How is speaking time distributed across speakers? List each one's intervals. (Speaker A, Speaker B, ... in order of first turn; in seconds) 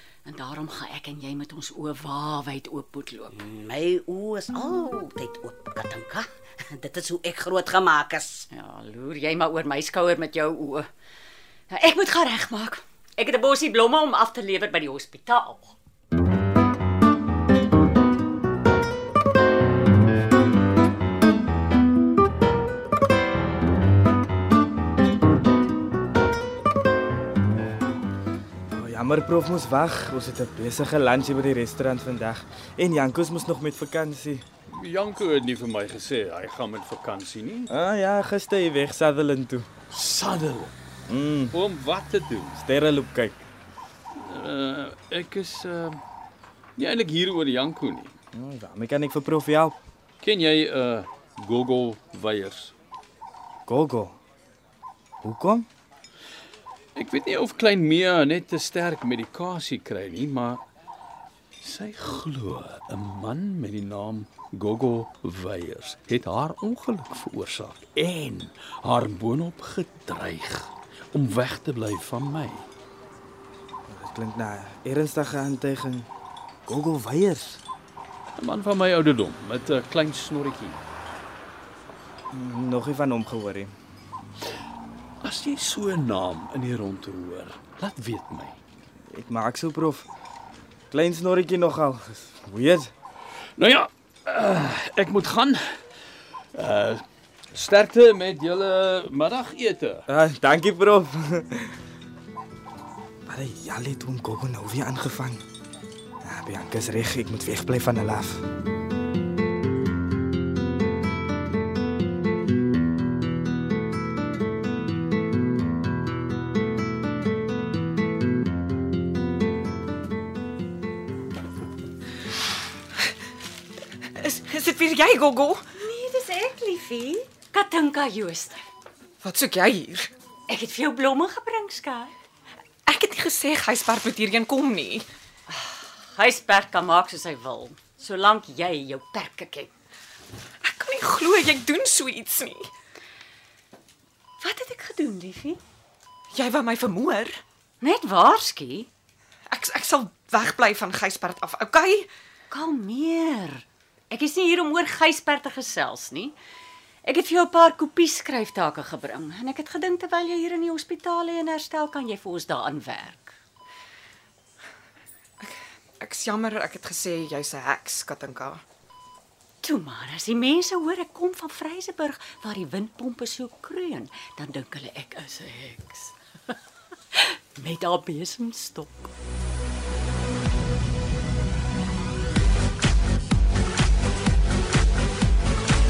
Speaker A: 0.2-3.4, 8.5-10.9, 11.7-15.8, 125.8-128.6, 130.5-132.1, 135.5-139.7, 144.4-145.6, 147.8-148.9, 152.5-156.4, 157.1-163.4, 169.6-176.1, 177.1-179.1
Speaker B: 3.3-8.5
Speaker C: 28.7-34.4, 37.7-39.7, 41.1-41.6, 42.6-43.4, 48.3-49.8, 53.7-54.2, 55.2-55.7, 73.9-76.1, 76.7-77.6, 82.3-83.7, 89.1-90.1, 90.9-92.9, 100.1-101.7, 103.3-105.4, 106.2-108.4
Speaker D: 34.7-37.7, 39.9-40.7, 41.5-42.6, 44.1-46.0, 46.8-48.1, 50.2-52.7, 57.0-60.6, 61.6-72.7, 78.4-80.8, 85.2-88.6, 93.6-95.6, 96.5-100.0
Speaker E: 124.2-125.7, 129.2-130.1, 132.9-135.1, 140.6-142.7, 146.3-147.4, 149.5-152.1, 166.0-168.6